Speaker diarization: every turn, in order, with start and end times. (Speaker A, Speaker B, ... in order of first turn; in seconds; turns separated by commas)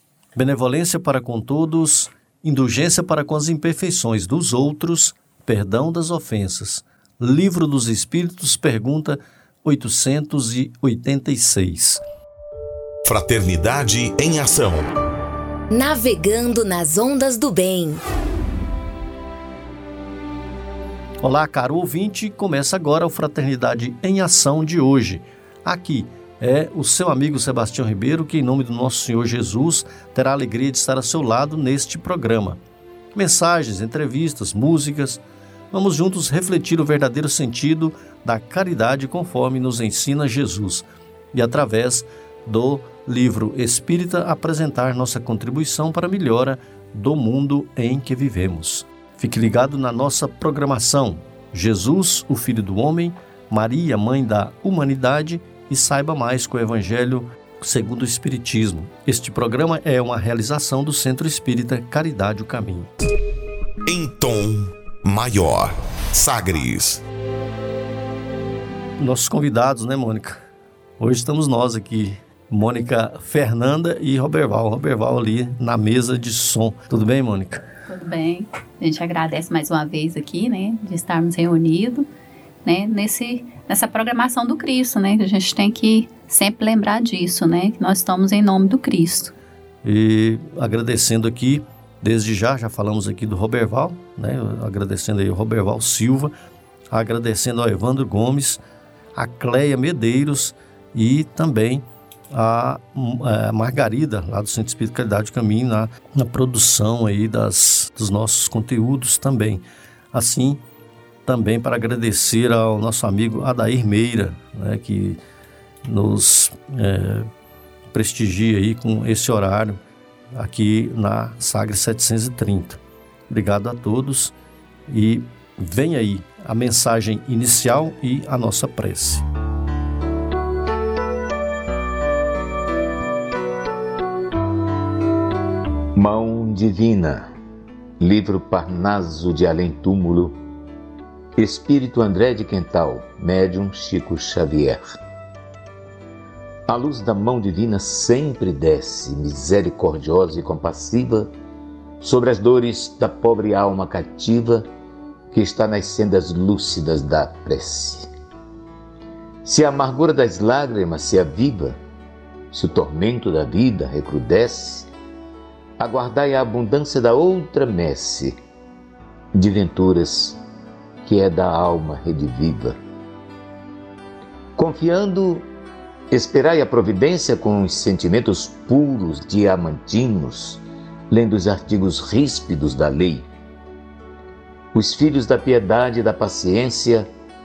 Speaker A: 0.3-12.0, Speaker B: 13.1-14.9, Speaker C: 15.7-18.0, Speaker A: 21.2-32.6, Speaker A: 33.1-62.9, Speaker B: 63.9-67.0, Speaker A: 69.0-70.4, Speaker A: 71.0-77.6, Speaker D: 77.9-82.1, Speaker D: 82.7-89.3, Speaker A: 89.8-96.3, Speaker A: 96.9-98.6, Speaker A: 99.2-110.6, Speaker A: 111.3-115.2, Speaker A: 115.8-117.3, Speaker A: 117.9-119.8, Speaker A: 120.3-124.3, Speaker A: 124.9-129.2, Speaker E: 135.9-137.3, Speaker E: 138.0-140.4, Speaker E: 141.4-145.0, Speaker E: 146.7-151.3, Speaker E: 152.0-154.7, Speaker E: 155.3-158.1, Speaker E: 159.4-161.8, Speaker E: 162.5-164.9, Speaker E: 165.8-168.4, Speaker E: 169.3-170.4, Speaker E: 171.0-172.8, Speaker E: 174.6-175.5, Speaker E: 176.1-183.2, Speaker E: 184.7-187.1